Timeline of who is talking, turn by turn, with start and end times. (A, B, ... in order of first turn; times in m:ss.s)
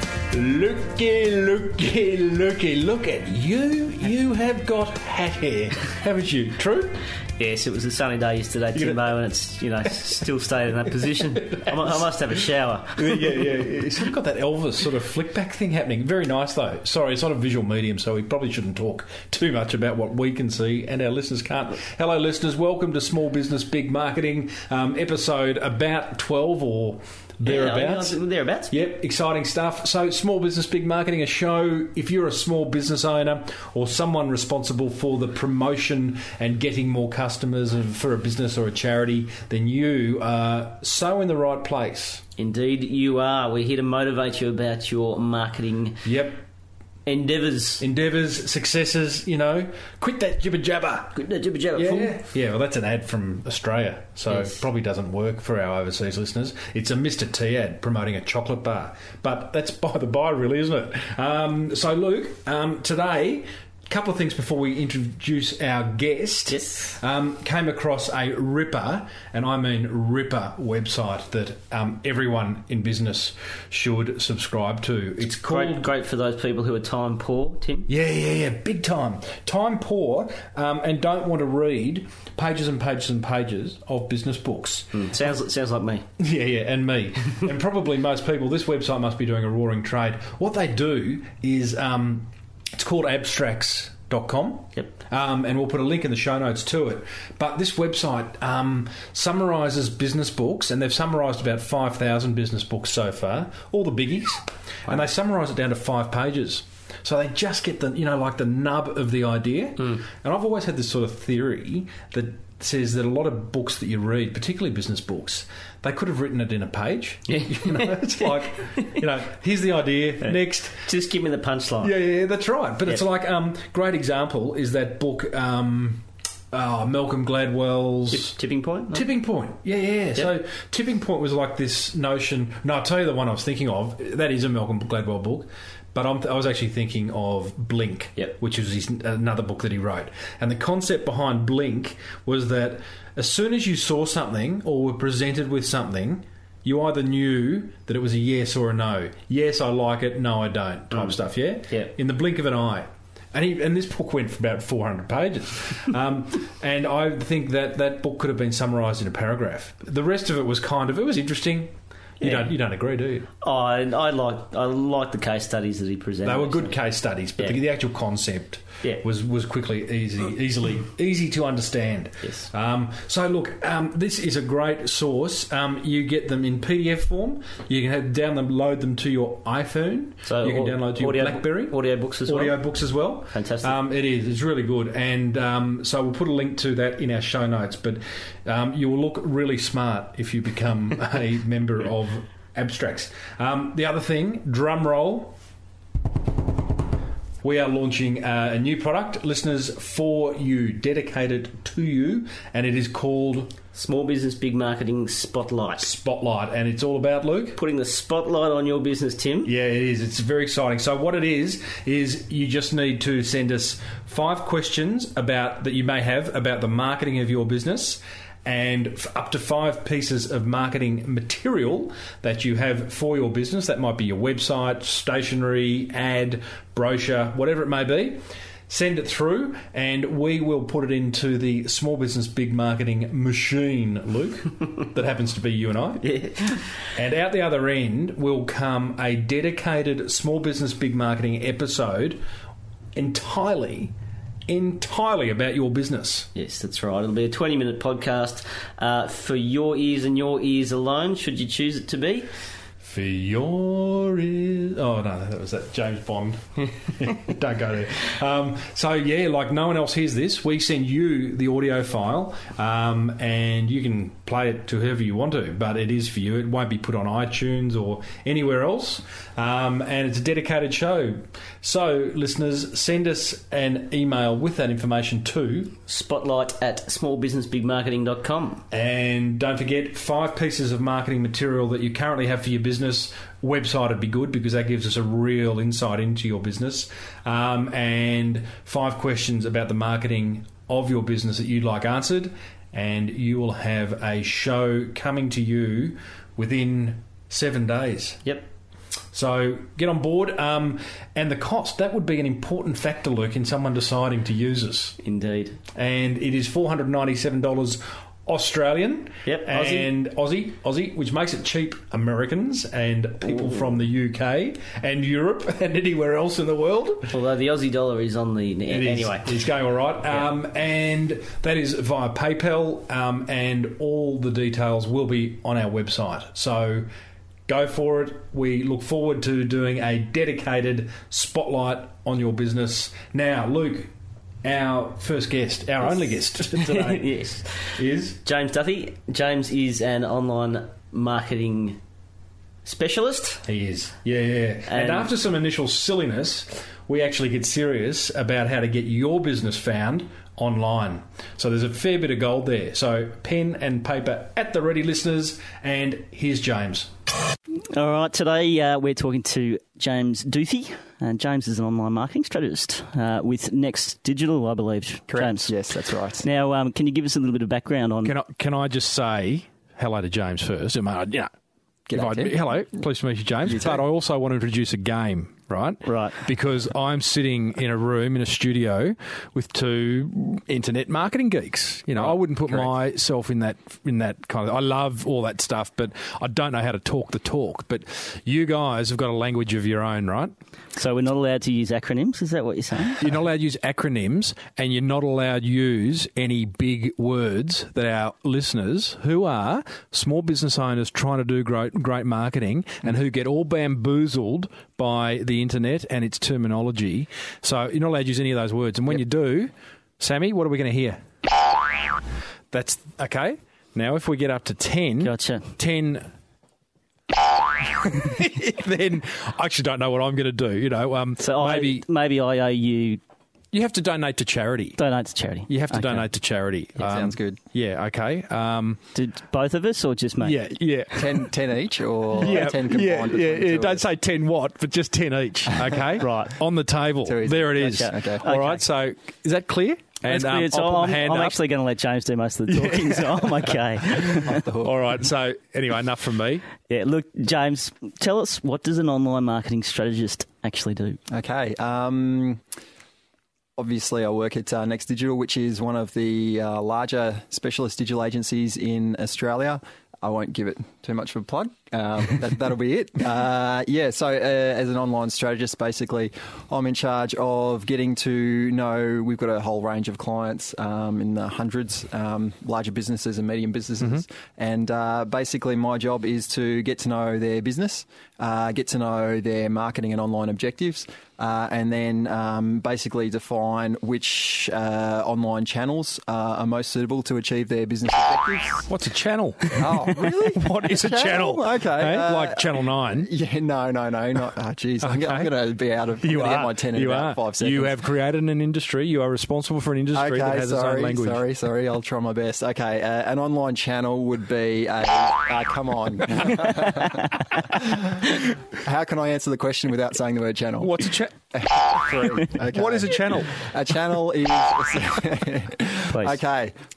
0:00.3-0:07.0 A
0:07.4-0:13.2 B
0:08.7-0:09.0 A
0:11.5-0:11.9 A
0:13.0-0:28.1 A
0:27.4-0:28.7 B
0:28.7-0:42.2 A
0:42.4-0:46.0 B
0:46.0-0:46.4 A
0:47.0-0:47.8 B
0:47.8-0:51.2 A
0:51.1-0:52.2 B
0:51.7-1:15.9 A
0:54.3-0:54.6 B
1:06.5-1:07.0 B
1:15.5-1:17.9 B
1:17.9-1:24.9 A
1:24.9-1:26.0 B
1:26.2-2:00.8 A
1:57.3-1:58.2 B
2:00.2-2:01.9 B
2:01.8-2:08.4 A
2:08.1-2:09.0 B
2:08.9-2:43.3 A
2:42.2-2:42.5 B
2:43.4-2:46.7 B
2:46.2-3:15.3 A
3:00.2-3:02.6 B
3:03.3-3:03.8 B
3:17.4-3:23.5 A
3:23.7-3:25.9 B
3:25.8-3:27.6 A
3:27.5-3:29.5 B
3:29.4-3:56.2 A
3:56.0-3:56.6 B
3:56.9-4:02.2 A
4:02.9-4:03.9 A
4:04.5-4:06.3 A
4:06.3-4:12.3 B
4:12.8-4:35.8 A
4:35.9-4:38.6 B
4:38.7-4:58.2 A
4:59.1-5:05.0 A
5:05.0-5:05.6 B
5:05.7-5:17.1 A
5:09.2-5:09.9 B
5:17.1-5:19.3 B
5:18.7-5:26.9 A
5:27.5-5:33.9 A
5:34.4-5:37.0 A
5:36.4-5:41.8 B
5:37.8-5:38.2 A
5:42.6-5:43.4 B
5:43.4-5:56.9 A
5:44.7-5:45.1 B
5:57.7-6:05.5 B
6:05.1-6:06.2 C
6:06.2-6:08.1 B
6:08.0-6:11.3 A
6:11.9-6:12.4 C
6:11.9-6:30.3 A
6:13.4-6:13.8 C
6:15.8-6:16.2 B
6:30.8-6:33.0 B
6:33.0-6:51.0 A
6:52.5-6:56.1 A
6:55.0-6:55.5 B
6:57.6-7:01.8 A
7:01.2-7:03.0 B
7:03.5-7:04.8 A
7:04.8-7:06.0 B
7:05.5-7:08.8 A
7:06.8-7:07.4 C
7:08.9-7:10.3 B
7:10.2-7:11.3 A
7:10.9-7:13.8 C
7:12.2-7:21.4 A
7:16.0-7:16.3 B
7:17.0-7:18.2 C
7:17.8-7:18.6 B
7:20.1-7:24.4 B
7:22.5-7:23.4 A
7:24.1-7:24.8 C
7:24.6-7:26.5 A
7:26.7-7:31.0 B
7:31.1-7:32.4 C
7:33.6-8:08.7 C
8:08.7-8:13.1 A
8:09.6-8:17.8 C
8:14.8-8:15.3 A
8:16.0-8:21.2 A
8:19.9-8:36.5 C
8:30.6-8:33.5 A